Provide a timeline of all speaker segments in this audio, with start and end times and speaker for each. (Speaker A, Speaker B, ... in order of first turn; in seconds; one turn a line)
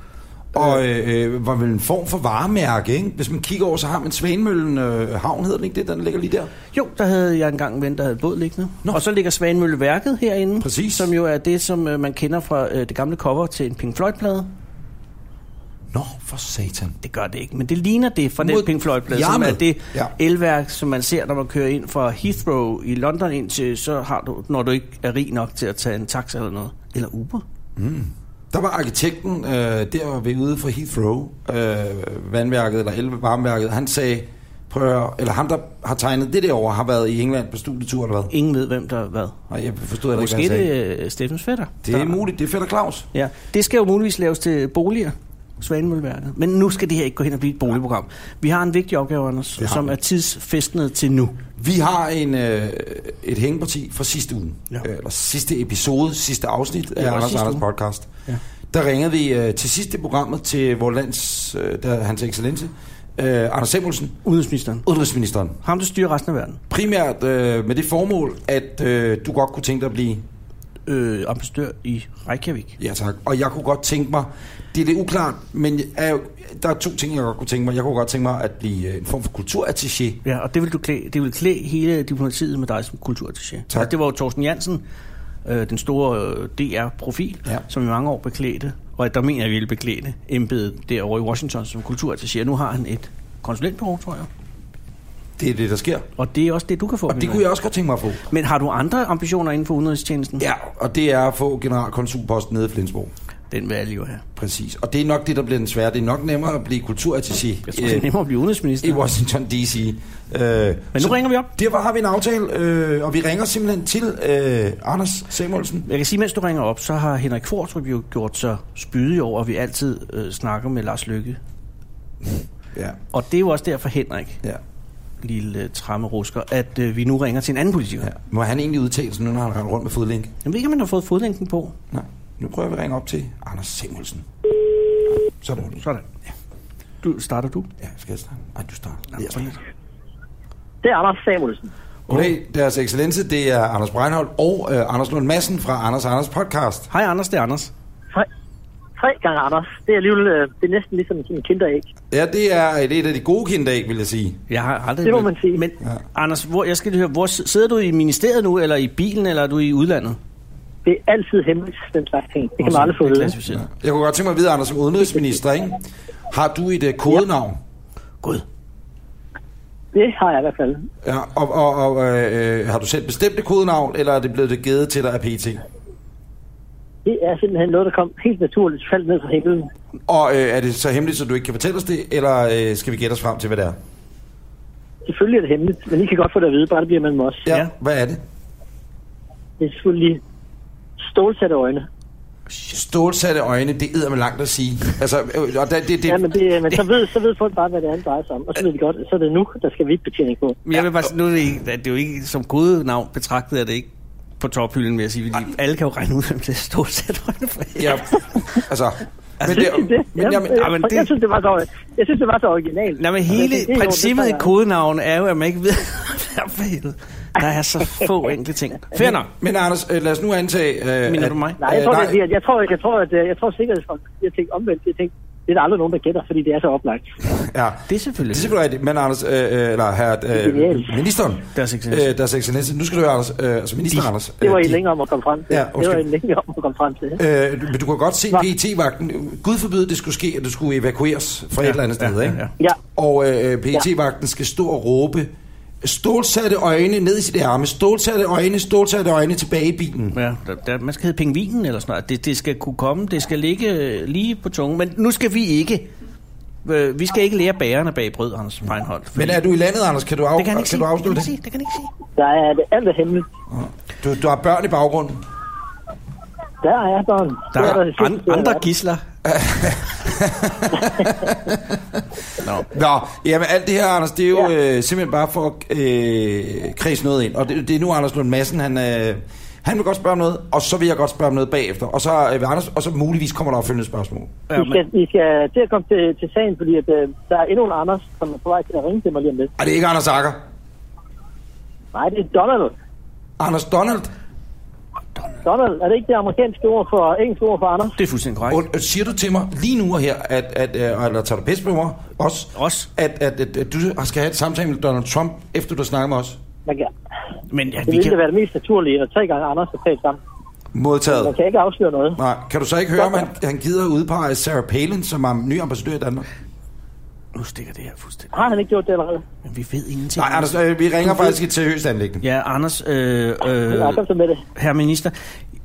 Speaker A: 0.5-6.5
Speaker B: 6.7-14.5
Speaker A: 10.6-11.1
Speaker A: 15.9-16.9
Speaker B: 17.0-27.4
Speaker A: 18.4-20.1
Speaker A: 27.8-38.3
Speaker B: 38.3-39.4
Speaker A: 39.5-40.7
Speaker B: 40.1-42.2
Speaker A: 41.8-43.1
Speaker B: 43.1-51.4
Speaker A: 49.6-49.9
Speaker A: 51.6-58.1
Speaker B: 57.0-57.6
Speaker A: 58.7-64.2
Speaker B: 64.2-64.8
Speaker A: 64.8-65.6
Speaker B: 65.6-66.6
Speaker A: 66.7-70.2
Speaker B: 70.9-72.8
Speaker A: 72.8-80.2
Speaker B: 80.2-84.8
Speaker B: 85.4-94.3
Speaker A: 95.4-96.0
Speaker B: 96.2-97.4
Speaker A: 97.1-98.2
Speaker B: 98.3-100.4
Speaker A: 100.4-103.1
Speaker B: 103.5-104.2
Speaker A: 104.3-108.1
Speaker B: 107.7-109.0
Speaker A: 108.8-115.8
Speaker B: 110.9-111.5
Speaker B: 115.8-121.4
Speaker A: 122.7-123.0
Speaker B: 123.1-124.4
Speaker B: 125.2-128.1
Speaker A: 128.0-130.3
Speaker B: 130.4-131.7
Speaker A: 131.9-134.3
Speaker A: 135.1-135.8
Speaker B: 135.8-136.1
Speaker B: 137.0-137.7
Speaker A: 137.8-139.5
Speaker B: 139.2-139.6
Speaker C: 140.8-141.7
Speaker B: 142.1-142.3
Speaker A: 142.1-146.9
Speaker B: 146.9-147.7
Speaker C: 149.0-151.8
Speaker A: 152.1-154.4
Speaker B: 154.5-160.2
Speaker C: 155.0-155.6
Speaker C: 160.8-163.3
Speaker B: 162.6-163.6
Speaker A: 163.5-167.6
Speaker C: 169.9-170.8
Speaker A: 171.0-175.6
Speaker C: 177.0-179.7
Speaker A: 180.1-183.8
Speaker C: 185.1-187.5
Speaker A: 187.4-188.2
Speaker C: 189.6-190.2
Speaker C: 191.0-191.8
Speaker B: 192.5-192.8
Speaker A: 192.7-196.2
Speaker C: 196.1-200.6
Speaker B: 200.7-203.9
Speaker B: 204.4-208.2
Speaker A: 207.8-210.7
Speaker B: 209.4-209.8
Speaker C: 209.4-214.5
Speaker B: 210.5-211.1
Speaker B: 212.9-219.3
Speaker A: 219.3-222.2
Speaker B: 221.1-221.7
Speaker C: 221.6-227.2
Speaker A: 227.3-234.8
Speaker B: 227.9-228.5
Speaker C: 230.3-230.9
Speaker B: 231.5-232.1
Speaker C: 234.4-237.2
Speaker A: 235.5-236.0
Speaker A: 237.2-242.4
Speaker B: 241.6-242.5
Speaker A: 242.9-245.3
Speaker A: 245.8-250.2
Speaker B: 250.1-255.9
Speaker B: 256.6-259.4
Speaker A: 259.1-261.3
Speaker B: 260.4-261.9
Speaker C: 262.2-263.3
Speaker A: 263.5-265.2
Speaker C: 266.6-268.6
Speaker B: 267.5-269.0
Speaker A: 269.2-272.0
Speaker B: 272.4-272.6
Speaker A: 272.6-284.3
Speaker B: 284.5-284.8
Speaker C: 284.6-289.5
Speaker A: 289.6-290.4
Speaker C: 291.9-292.7
Speaker A: 293.4-294.1
Speaker C: 295.4-297.9
Speaker B: 297.9-298.6
Speaker A: 298.5-306.4
Speaker B: 302.5-302.9
Speaker C: 306.6-306.9
Speaker B: 307.5-308.2
Speaker C: 307.9-310.2
Speaker A: 310.7-311.3
Speaker C: 311.1-312.2
Speaker A: 312.1-316.2
Speaker C: 313.0-313.3
Speaker B: 317.3-318.3
Speaker C: 318.3-319.2
Speaker B: 319.4-321.3
Speaker A: 320.2-322.2
Speaker B: 322.2-324.0
Speaker C: 323.7-324.4
Speaker B: 324.5-325.1